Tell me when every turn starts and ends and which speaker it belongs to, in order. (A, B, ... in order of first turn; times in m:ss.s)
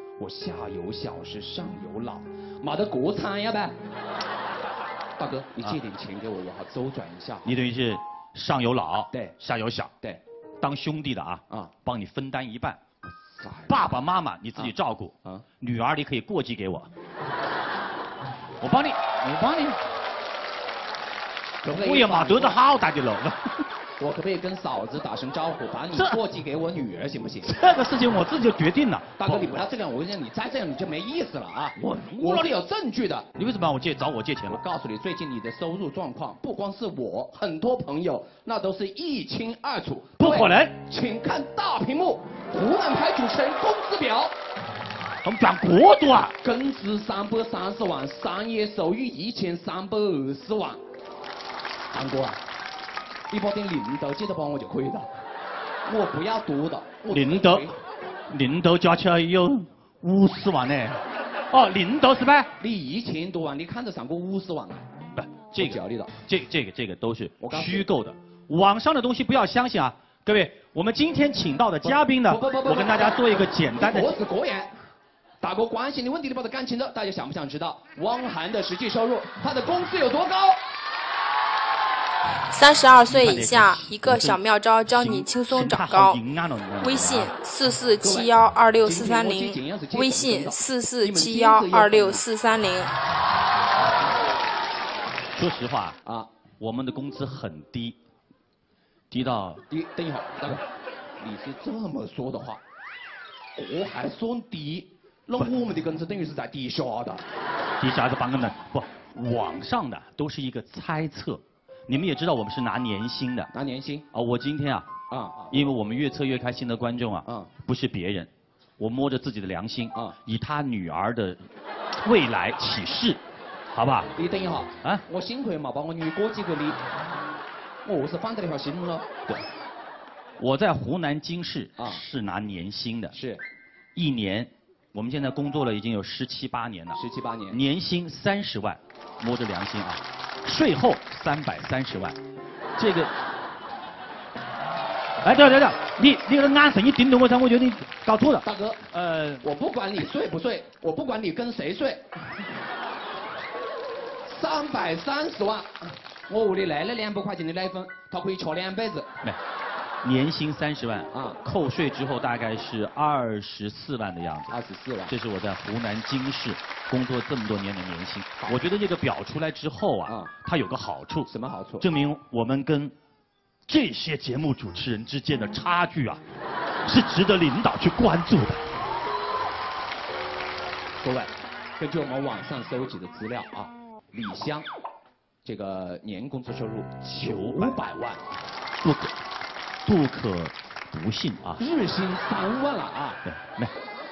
0:00.2-0:03.8 A
0:05.2-0:07.6 A
0:07.4-0:09.9 B
0:10.6-0:12.8 B
0:13.1-0:13.9 A
0:13.7-0:16.9 B
0:18.6-0:19.8 B
0:21.6-0:22.6 A
0:21.7-0:23.6 B
0:24.0-0:27.6 A
0:25.9-0:26.2 B
0:27.4-0:29.6 B
0:29.2-0:33.3 A
0:31.8-0:32.5 B
0:33.3-0:34.6 B
0:34.5-0:44.3 A
0:40.2-0:40.8 B
0:45.2-0:46.3 B
0:46.4-0:50.8 A
0:51.9-0:52.4 A
0:53.3-0:55.1 A
0:55.8-0:57.8 A
0:57.1-0:57.8 B
0:58.3-1:02.5 B
1:02.6-1:04.9 A
1:05.1-1:14.1 B
1:05.6-1:06.1 A
1:07.4-1:07.9 A
1:11.8-1:14.7 A
1:15.4-1:20.6 A
1:22.5-1:26.2 C
1:23.1-1:27.3 B
1:26.8-1:32.9 C
1:28.0-1:32.2 A
1:35.3-1:36.0 B
1:36.0-1:36.3 A
1:36.6-1:38.0 B
1:39.1-1:39.6 B
1:39.7-1:40.6 A
1:41.2-1:42.6 A
1:43.6-1:47.2 A
1:47.8-1:53.5 B
1:53.5-1:54.0 A
1:54.1-1:54.9 B
1:55.1-1:55.5 A
1:55.5-2:01.4 B
1:57.2-1:57.5 A
2:02.0-2:03.2 B
2:03.7-2:04.1 B
2:04.1-2:06.8 A
2:07.8-2:09.3 A
2:10.4-2:13.1 B
2:11.8-2:12.0 A
2:13.1-2:13.4 A
2:13.9-2:17.0 B
2:16.9-2:17.6 A
2:17.5-2:22.2 B
2:22.8-2:23.1 B
2:25.2-2:29.4 B
2:28.4-2:28.9 A
2:29.4-2:32.1 A
2:34.2-2:39.1 A
2:40.0-2:44.5 B
2:41.1-2:41.4 A
2:44.5-2:45.1 A
2:45.1-2:51.3 B
2:50.1-2:50.3 A
2:51.3-2:51.9 A
2:51.8-2:52.9 B
2:53.7-2:56.2 B
2:56.8-2:58.7 B
3:01.0-3:04.7 A
3:05.4-3:08.2 A
3:07.2-3:07.8 B
3:08.8-3:09.1 B
3:09.8-3:11.6 B
3:11.6-3:13.2 A
3:13.2-3:13.7 B